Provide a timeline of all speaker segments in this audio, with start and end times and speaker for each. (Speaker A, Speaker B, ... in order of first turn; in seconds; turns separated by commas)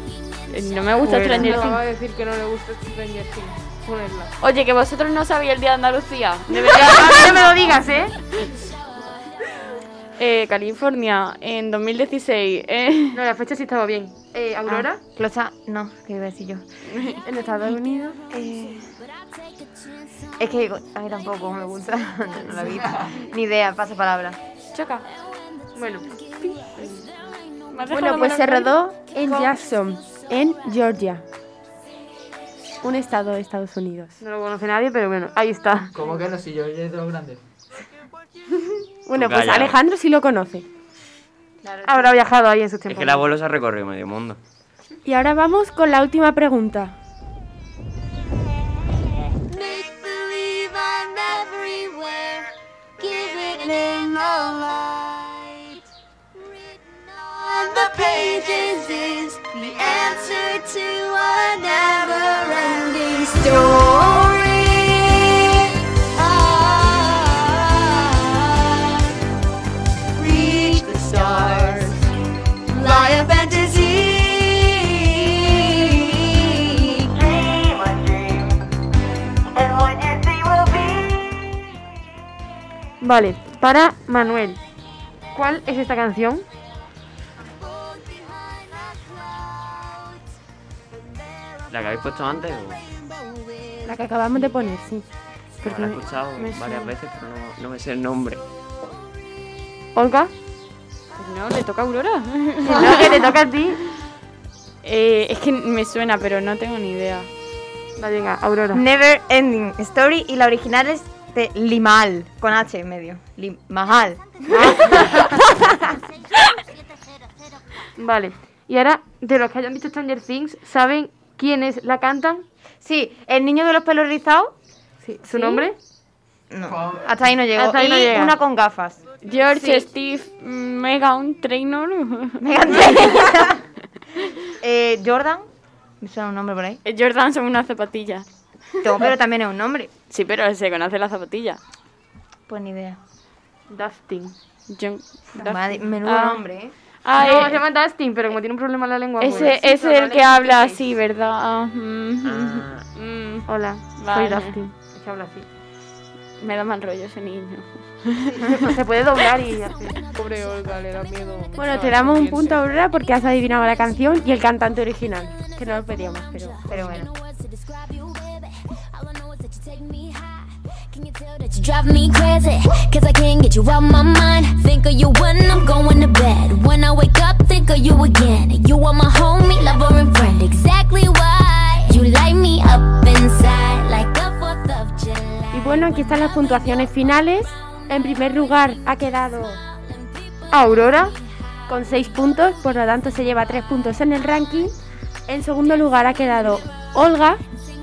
Speaker A: 0.5-1.8, Speaker B: 1.0-1.7, Speaker C: 1.3-4.3, Speaker A: 4.4-7.5, Speaker B: 6.7-8.2, Speaker A: 10.2-13.2, Speaker B: 13.1-15.0, Speaker D: 14.7-16.6, Speaker A: 16.9-17.2, Speaker E: 17.2-18.2, Speaker D: 18.3-18.9, Speaker D: 20.4-24.4, Speaker A: 24.7-25.1, Speaker B: 25.8-26.1, Speaker A: 27.7-28.8, Speaker E: 27.9-31.2, Speaker E: 32.8-34.1, Speaker B: 34.2-35.9, Speaker F: 35.9-37.4, Speaker E: 39.1-40.7, Speaker G: 39.1-39.8, Speaker D: 41.6-42.2, Speaker B: 41.9-43.3, Speaker G: 42.9-44.4, Speaker E: 45.0-47.0, Speaker H: 49.6-52.3, Speaker I: 53.0-55.2, Speaker H: 53.0-53.9, Speaker I: 57.5-65.1, Speaker H: 58.6-59.0, Speaker H: 60.2-64.3, Speaker I: 66.2-68.7, Speaker I: 70.2-72.0, Speaker I: 72.7-78.5, Speaker I: 79.6-81.4, Speaker B: 83.0-84.6, Speaker B: 85.3-86.5, Speaker G: 91.7-92.8, Speaker E: 93.8-95.1, Speaker E: 95.6-96.0, Speaker G: 95.6-98.4, Speaker A: 96.4-96.9, Speaker B: 100.0-100.3, Speaker A: 101.2-103.3, Speaker B: 102.6-103.8, Speaker A: 104.8-107.3, Speaker B: 108.0-108.8, Speaker D: 108.7-115.8, Speaker B: 114.5-115.5, Speaker B: 118.0-122.5, Speaker D: 122.8-124.5, Speaker B: 125.2-125.8, Speaker D: 125.2-125.7, Speaker D: 126.5-129.0, Speaker F: 126.7-127.1, Speaker B: 127.5-128.4, Speaker A: 129.2-133.3, Speaker D: 129.6-129.9, Speaker D: 132.4-133.6, Speaker D: 134.6-135.5, Speaker D: 136.0-136.8, Speaker A: 136.8-138.3, Speaker D: 138.8-139.9, Speaker A: 140.1-141.6, Speaker D: 142.5-143.0, Speaker B: 143.7-144.3, Speaker A: 144.7-146.4, Speaker D: 145.4-146.8, Speaker A: 147.0-147.6, Speaker B: 147.2-150.9, Speaker A: 149.2-154.6, Speaker G: 152.2-152.8, Speaker B: 153.5-155.5, Speaker A: 156.4-158.7, Speaker B: 158.4-160.0, Speaker C: 160.1-162.7, Speaker E: 161.6-166.7, Speaker D: 166.7-167.1, Speaker H: 166.9-185.9, Speaker E: 185.5-189.6, Speaker B: 190.5-191.2, Speaker E: 191.7-194.8, Speaker E: 195.3-197.4